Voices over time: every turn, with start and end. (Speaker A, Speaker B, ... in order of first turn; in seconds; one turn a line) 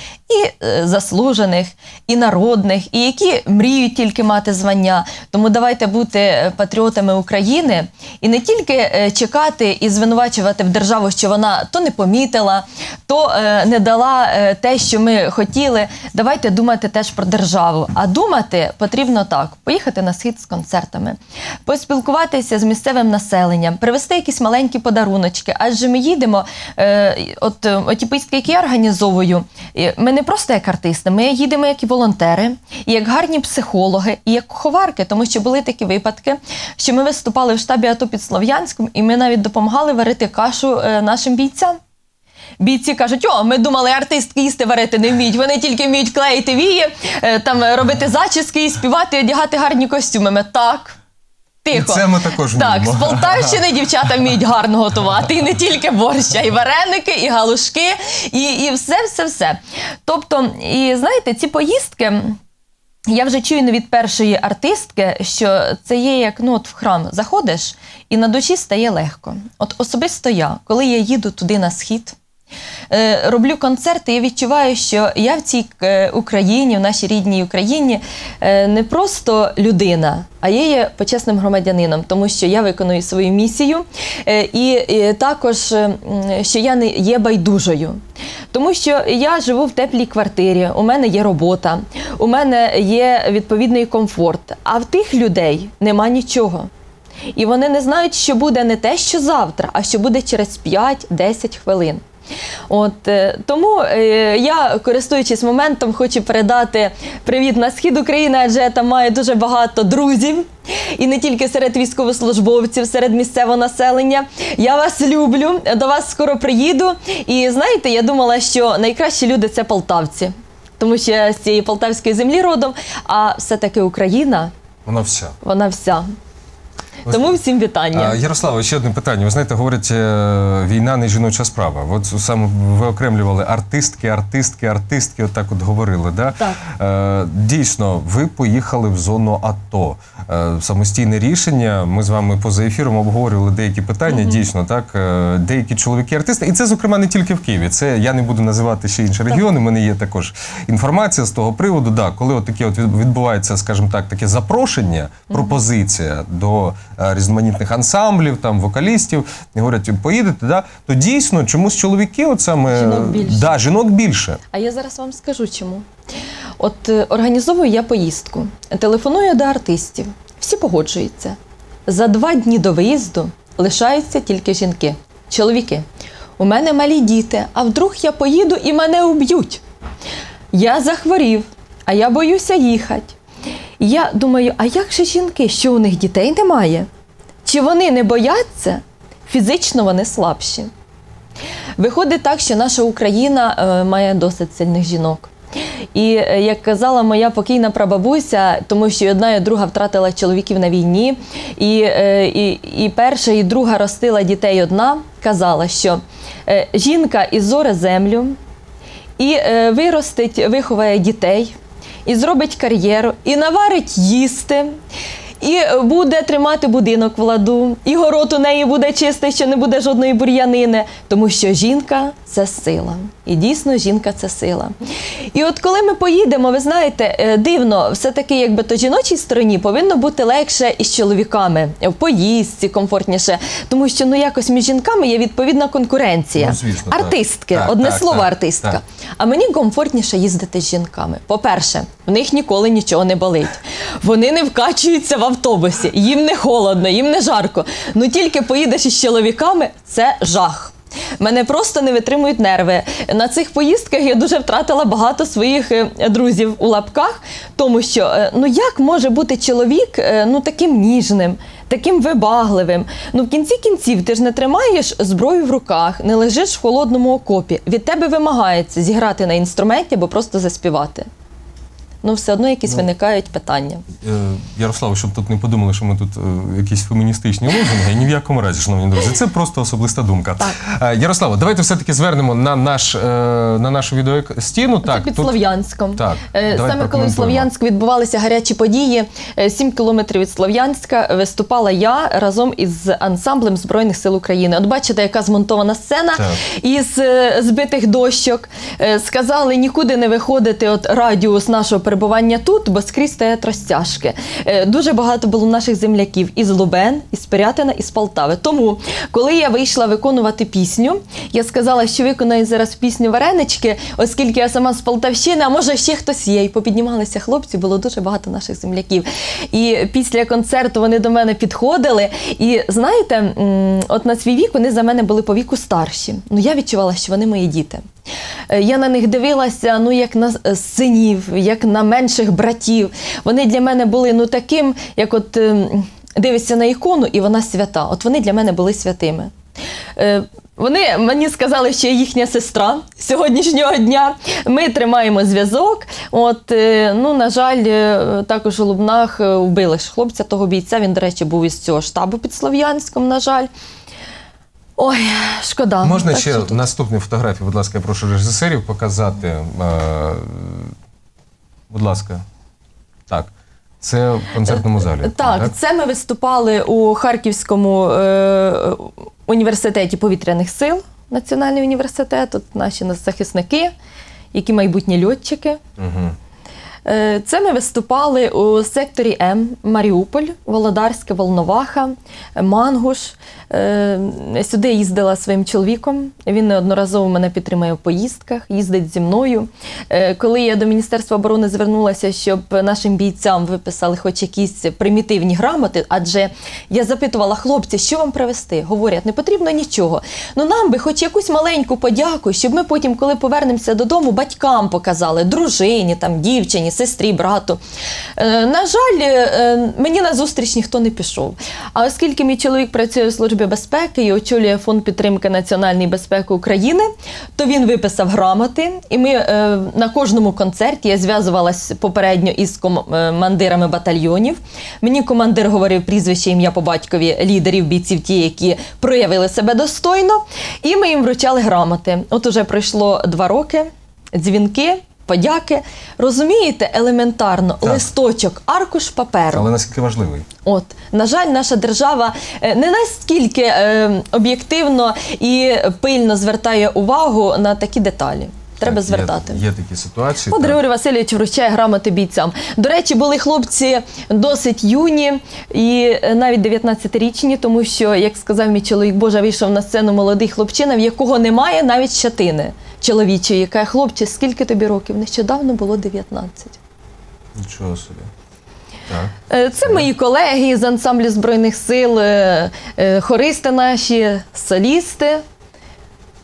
Speaker A: 0.3-41.8
Speaker A: 42.6-51.0
Speaker A: 51.6-62.4
Speaker B: 51.7-53.6
Speaker A: 63.1-72.2
Speaker A: 72.9-88.0
Speaker A: 88.5-96.7
Speaker A: 97.3-102.0
Speaker A: 102.7-124.5
Speaker B: 124.8-125.3
Speaker A: 125.4-126.0
Speaker B: 127.0-127.3
Speaker A: 127.1-128.2
Speaker B: 127.9-164.4
Speaker A: 144.1-144.4
Speaker A: 155.3-155.6
Speaker A: 162.7-163.6
Speaker A: 164.5-165.8
Speaker A: 166.6-175.8
Speaker A: 176.4-179.6
Speaker A: 180.5-183.1
Speaker A: 183.8-186.9
Speaker A: 187.4-190.7
Speaker A: 191.8-195.3
Speaker A: 195.9-208.4
Speaker A: 209.2-214.7
Speaker A: 215.4-224.7
Speaker A: 225.3-271.1
Speaker B: 236.3-238.8
Speaker A: 272.0-273.8
Speaker B: 274.0-285.4
Speaker A: 284.8-327.8
Speaker B: 285.9-287.5
Speaker B: 296.1-296.4
Speaker A: 328.5-339.3
Speaker A: 340.0-353.5
Speaker A: 354.8-356.6
Speaker B: 355.8-360.7
Speaker B: 361.7-362.2
Speaker B: 363.1-365.5
Speaker A: 364.5-373.7
Speaker A: 374.3-375.6
Speaker B: 375.8-376.1
Speaker A: 376.8-407.6
Speaker A: 408.2-439.5
Speaker B: 437.6-437.9
Speaker B: 439.3-440.3
Speaker A: 440.4-449.4
Speaker B: 448.6-450.6
Speaker A: 450.3-466.6
Speaker B: 467.4-468.1
Speaker A: 469.3-475.2